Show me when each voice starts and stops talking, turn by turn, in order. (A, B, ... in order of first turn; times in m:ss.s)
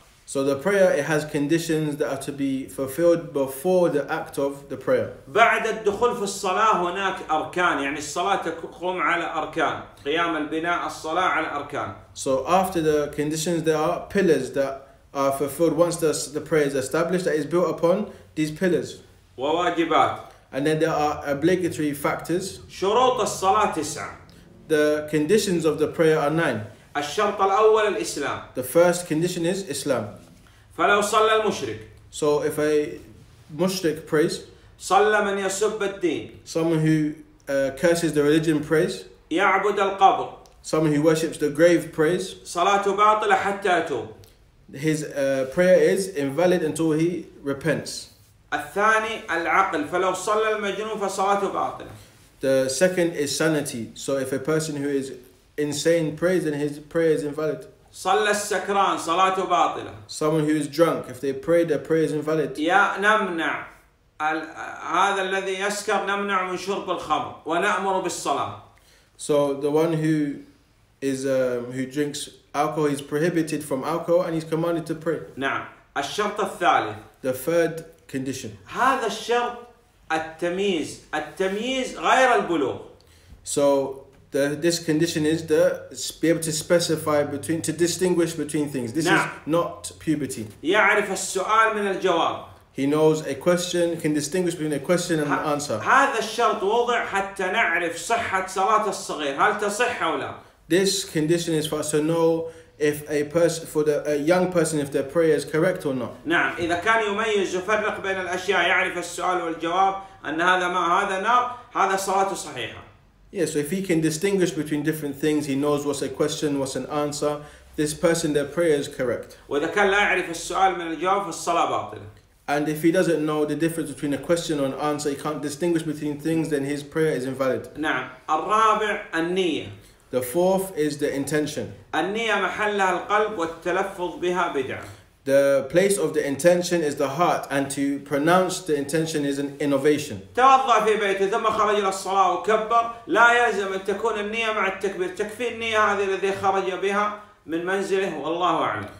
0:00.3-0:05.1 A
0:05.3-0:12.0 B
0:12.2-0:19.0 A
0:19.4-0:20.2 B
0:20.5-0:22.6 A
0:22.7-0:24.2 B
0:24.7-0:26.7 A
0:26.9-0:28.4 B
0:28.5-0:30.1 A
0:30.7-0:31.9 B
0:32.1-0:34.4 A
0:34.8-0:36.4 B
0:36.4-0:39.0 A
0:39.3-0:40.4 B
0:40.6-0:42.4 A
0:42.4-0:44.1 B
0:44.7-0:48.1 A
0:48.5-0:52.0 B
0:52.4-0:57.7 A
0:57.9-1:00.0 B
1:00.1-1:02.6 A
1:02.6-1:03.6 B
1:04.2-1:08.6 B
1:09.2-1:10.4 A
1:11.0-1:15.2 A
1:15.4-1:17.0 B
1:17.2-1:18.6 A
1:18.6-1:22.9 B
1:23.4-1:30.5 A
1:29.0-1:29.3 B
1:30.6-1:32.5 B
1:32.7-1:35.8 A
1:35.2-1:40.4 B
1:40.7-1:46.2 A
1:46.2-1:52.8 B
1:53.3-1:59.4 A
1:59.5-2:02.1 B
2:02.5-2:07.7 A
2:07.7-2:09.7 B
2:10.1-2:11.7 A
2:11.9-2:14.9 B
2:15.2-2:20.2 A
2:20.3-2:28.9 B